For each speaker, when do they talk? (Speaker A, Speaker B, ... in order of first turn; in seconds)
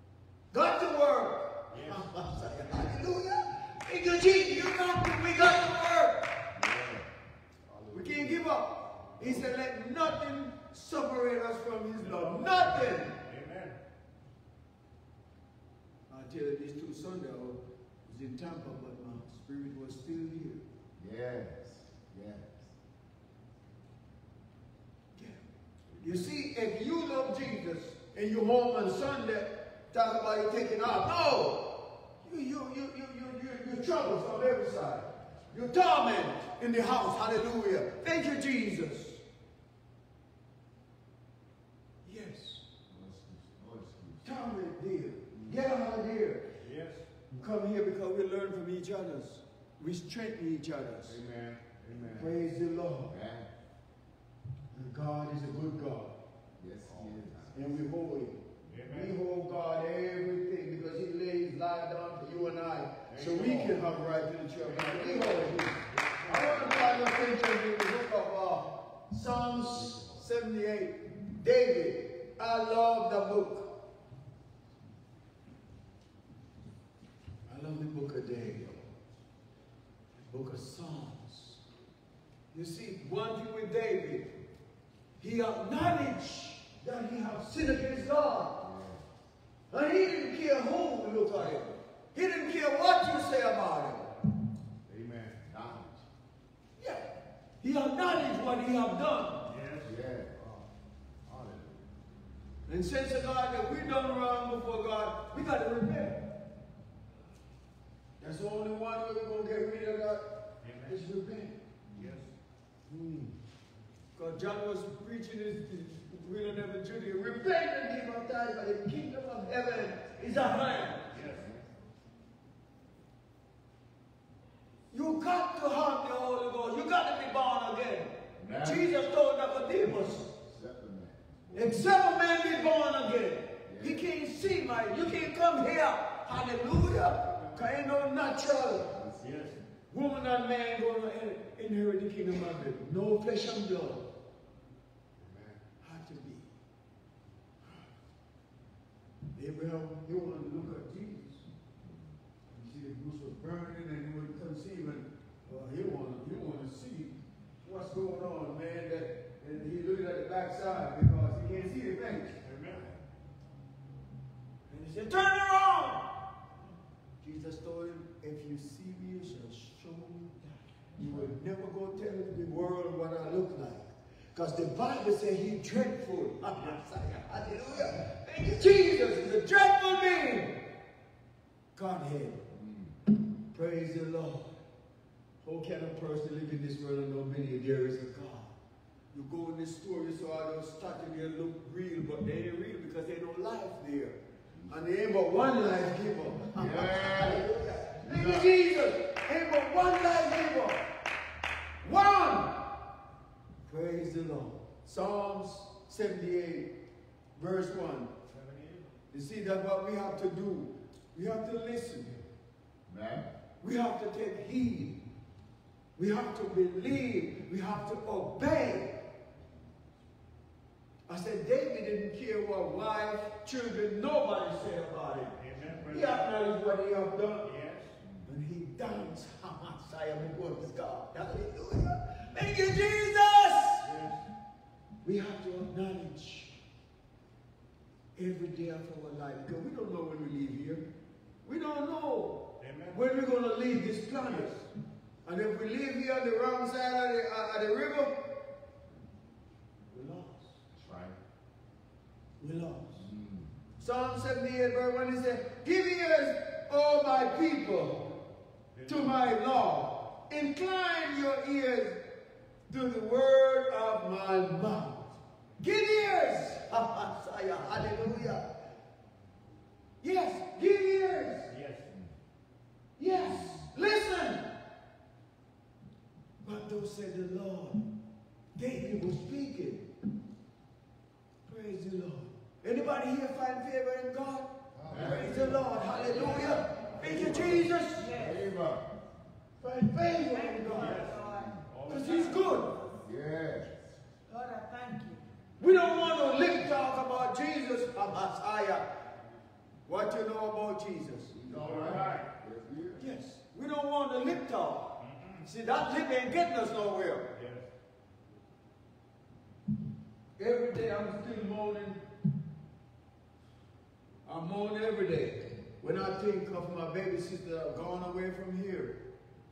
Speaker A: 0.5-6.3, 7.9-13.2, 16.1-20.6, 25.1-25.4, 26.0-39.2, 42.0-42.6, 44.2-46.5, 47.3-51.2, 52.1-53.1, 54.7-56.1, 57.5-73.7, 77.5-78.7, 80.2-81.6, 82.5-84.3, 85.2-88.6, 89.7-94.1, 96.8-97.1, 97.6-99.5, 102.7-106.2, 108.2-111.6, 112.9-113.3, 114.2-121.1, 124.9-130.3, 131.5-138.9, 139.9-144.1, 145.8-146.5, 149.3-151.4, 152.5-162.4, 164.7-166.1, 167.2-180.6, 181.7-182.4, 183.5-184.6, 185.4-188.5, 189.1-194.2, 194.7-200.8, 201.8-202.6, 203.7-206.7, 207.3-208.1, 209.1-212.2, 213.6-215.0, 215.9-219.0, 221.1-225.3, 225.9-227.5, 228.2-233.9, 235.0-236.6, 238.2-240.9, 241.4-244.6, 245.2-248.2, 249.9-250.6, 252.4-253.1, 253.8-258.1, 258.9-262.0, 262.7-268.5, 270.0-271.5, 273.0-274.5, 276.4-277.8, 278.6-279.9, 281.4-288.1, 289.6-291.0, 291.9-292.7, 295.6-298.9, 299.9-301.3, 303.0-307.3, 310.4-312.0, 314.2-319.0
Speaker B: 1.7-2.9, 6.5-7.0, 7.7-8.4, 9.0-9.5, 12.0-13.8, 25.9-26.2, 46.6-47.1, 51.2-52.3, 56.8-57.5, 58.6-59.2, 63.1-63.8, 64.6-67.0, 94.8-95.4, 99.5-99.9, 101.3-101.8, 110.6-111.0, 111.9-112.3, 121.1-121.5, 139.2-139.6, 145.2-145.6, 162.4-162.8, 176.5-176.8, 208.3-209.0, 225.4-226.3, 227.4-228.0, 233.8-234.2, 242.6-243.0, 244.2-244.7, 258.7-259.2, 271.5-271.9, 284.8-287.6, 290.7-292.5, 301.5-302.3, 305.0-305.4, 307.3-307.7
Speaker C: 21.0-22.7, 42.9-44.3, 51.1-51.6, 53.1-53.5, 56.6-57.5, 88.6-89.0, 95.4-96.0, 99.8-100.6, 121.1-121.6, 128.4-128.8, 130.4-131.7, 133.6-134.1, 138.8-139.3, 182.5-182.9, 196.5-197.5, 198.0-198.5, 212.9-213.3, 250.7-251.2, 252.9-253.5, 284.8-285.6, 287.0-287.6, 288.1-288.9, 291.1-291.6, 293.0-293.9, 301.3-303.0
Speaker D: 287.9-288.4, 290.3-293.0, 294.3-295.2